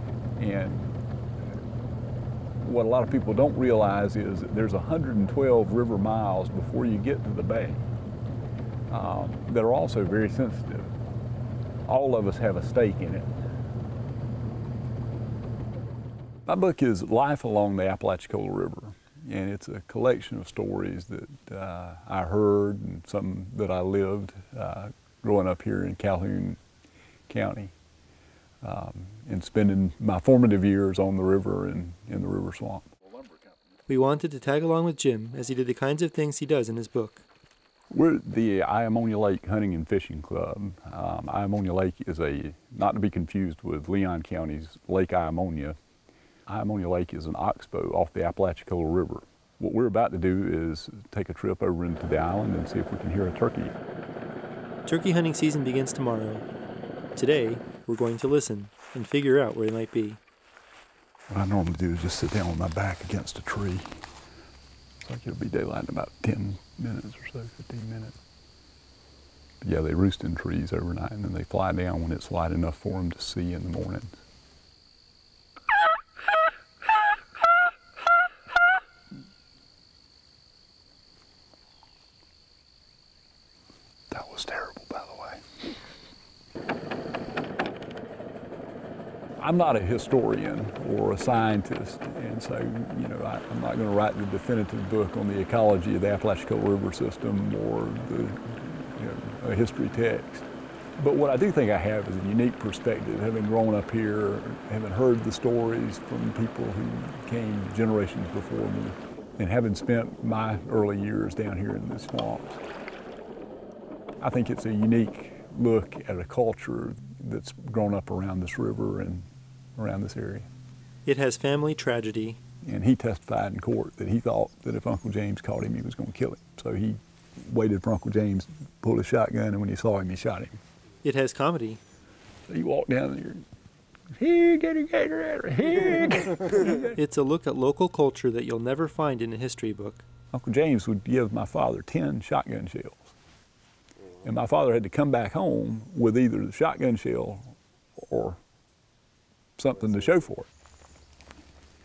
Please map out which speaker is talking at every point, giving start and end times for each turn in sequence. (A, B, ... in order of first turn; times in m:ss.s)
0:00.4-0:01.0 A
0:02.6-0:07.8 A
0:08.9-0:10.9 A
0:11.9-0:13.3 A
0:16.4-0:26.6 A
0:27.3-0:27.7 A
0:28.6-0:32.9 A
0:33.9-0:37.2 B
0:37.9-0:45.8 A
0:46.5-0:53.7 A
0:54.8-0:56.4 B
0:57.1-1:00.2 B
1:01.3-1:04.1 A
1:05.0-1:08.2 A
1:09.6-1:14.2 A
1:24.1-1:25.4 A
1:29.4-1:40.5 A
1:41.0-1:52.6 A
1:54.2-2:00.5 A
2:01.0-2:02.4 B
2:02.6-2:10.6 A
2:11.0-2:11.8 B
2:12.5-2:13.4 A
2:14.2-2:17.0 A
2:17.0-2:20.0 B
2:20.3-2:23.1 A
2:24.2-2:28.4 A
2:29.6-2:30.5 A